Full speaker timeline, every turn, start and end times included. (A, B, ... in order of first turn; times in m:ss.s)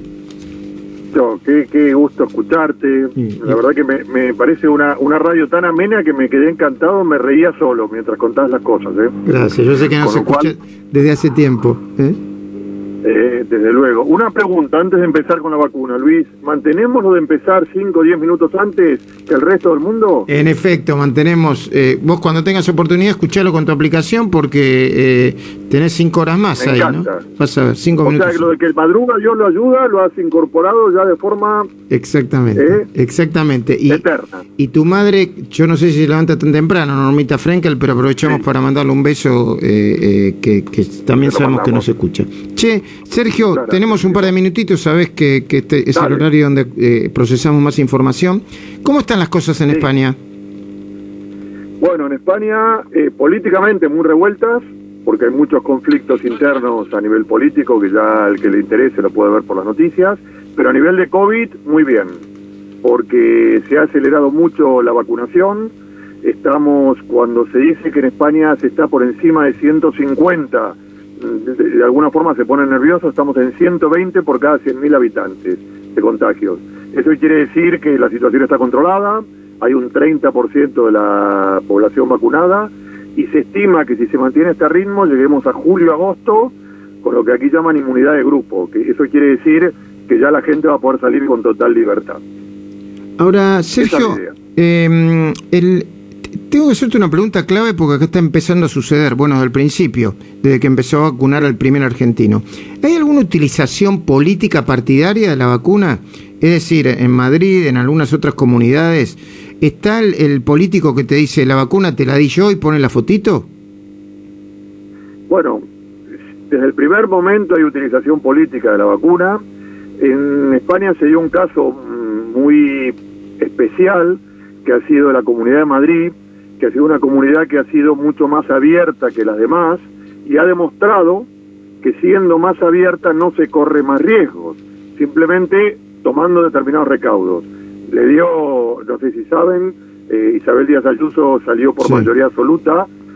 0:01.1-0:09.2 A
0:03.2-0:03.6 B
0:09.2-0:12.2 B
0:09.9-0:10.5 A
0:13.0-0:20.3 A
0:20.3-0:28.5 B
0:26.6-0:27.2 A
0:28.0-0:31.7 A
0:31.9-0:34.0 B
0:32.6-0:32.9 A
0:33.9-0:34.4 A
0:34.6-0:50.2 B
0:41.2-0:41.9 A
0:43.4-0:44.3 A
0:45.9-0:46.2 A
0:51.8-1:02.2 A
1:02.8-1:32.2 A
1:33.2-1:35.9 B
1:33.8-1:34.3 A
1:36.5-1:53.5 B
1:55.3-1:55.6 A
1:56.5-1:59.4 A
2:00.0-2:11.3 A
2:11.8-2:22.9 A
2:21.8-2:22.1 B